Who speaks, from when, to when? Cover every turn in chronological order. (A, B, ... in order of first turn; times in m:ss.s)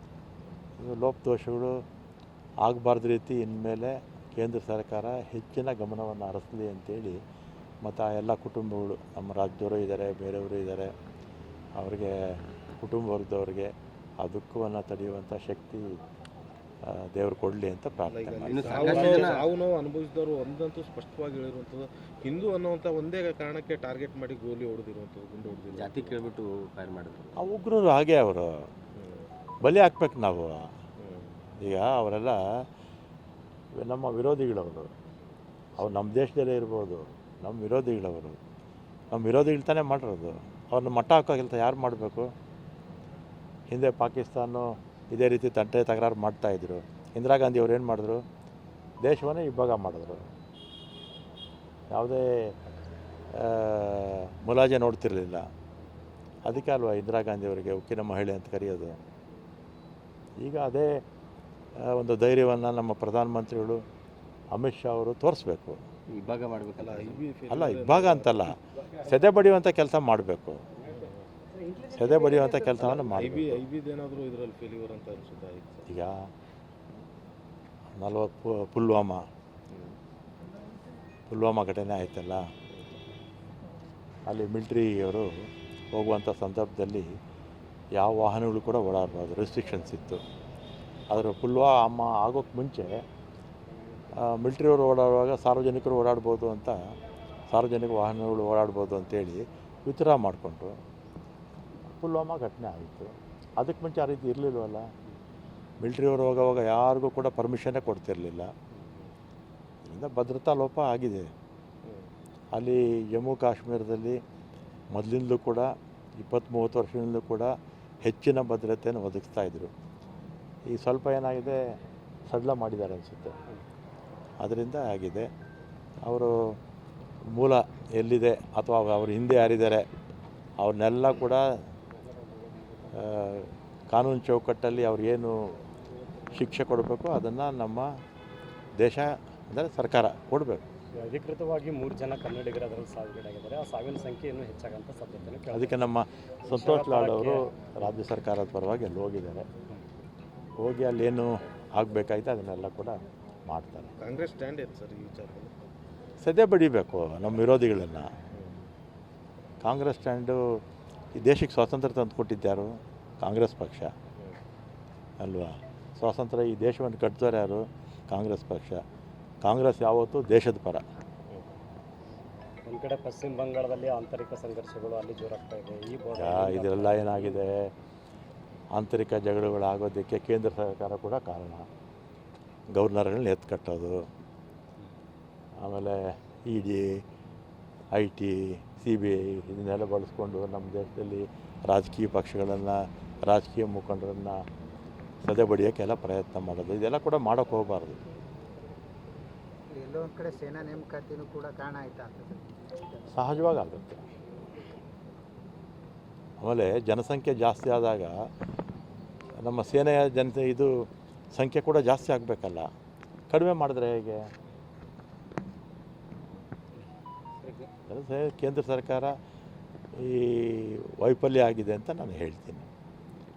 0:00.8-0:01.7 A
0:02.6-0:07.2 A
0:07.8-0:10.9 A
0:11.8-0:12.1 A
0:12.8-0:16.0 A
0:16.8-0:19.1 A
0:18.0-0:26.2 B
0:18.4-0:19.5 C
0:18.9-0:19.3 D
0:25.7-0:27.4 C
0:27.4-0:28.5 A
0:29.0-0:29.3 B
0:29.6-0:30.6 A
0:31.0-0:31.4 B
0:31.6-0:32.4 A
0:33.8-0:34.9 A
0:35.8-0:38.4 A
0:39.1-0:42.3 A
0:43.7-0:48.2 A
0:49.0-0:50.2 A
0:51.9-0:52.5 A
0:53.3-0:55.4 A
0:56.4-0:59.0 A
1:00.4-1:01.0 A
1:01.8-1:03.8 A
1:04.5-1:05.8 A
1:06.1-1:07.2 C
1:06.8-1:08.5 B
1:07.5-1:10.6 A
1:10.9-1:11.2 B
1:11.9-1:13.6 A
1:12.8-1:15.9 B
1:15.9-1:16.2 A
1:18.0-1:19.2 A
1:19.7-1:20.0 B
1:21.3-1:22.4 A
1:24.3-1:25.3 A
1:25.9-1:27.1 A
1:28.0-1:30.2 A
1:31.1-1:32.9 A
1:34.2-1:36.8 A
1:37.5-1:40.7 A
1:41.9-1:44.8 A
1:45.8-1:48.5 A
1:49.8-1:51.2 A
1:51.8-1:52.1 B
1:52.5-1:54.2 A
1:54.9-1:55.7 A
1:56.2-1:57.5 A
1:58.0-1:59.7 A
2:00.7-2:01.6 A
2:02.3-2:03.4 A
2:04.4-2:05.3 A
2:06.0-2:06.3 A
2:07.3-2:09.8 A
2:10.6-2:11.5 A
2:12.3-2:12.8 D
2:12.9-2:15.4 A
2:16.3-2:17.9 A
2:18.8-2:20.6 A
2:20.9-2:25.9 D
2:25.5-2:29.4 A
2:26.4-2:27.4 D
2:30.6-2:33.9 A
2:34.0-2:35.5 B
2:36.2-2:38.1 A
2:38.3-2:38.7 B
2:39.6-2:40.4 A
2:41.1-2:42.7 A
2:43.2-2:43.9 A
2:45.2-2:48.8 A
2:49.4-2:50.8 A
2:52.6-2:57.4 D
2:56.1-2:57.7 A
2:58.7-3:01.7 A
3:02.7-3:04.0 A
3:05.6-3:07.0 A
3:07.9-3:14.4 A
3:15.2-3:18.0 A
3:19.7-3:22.5 E
3:23.1-3:24.0 A
3:26.4-3:28.1 A
3:29.4-3:30.7 A
3:31.3-3:32.7 A
3:33.3-3:34.2 A
3:37.9-3:39.1 A
3:40.0-3:42.7 A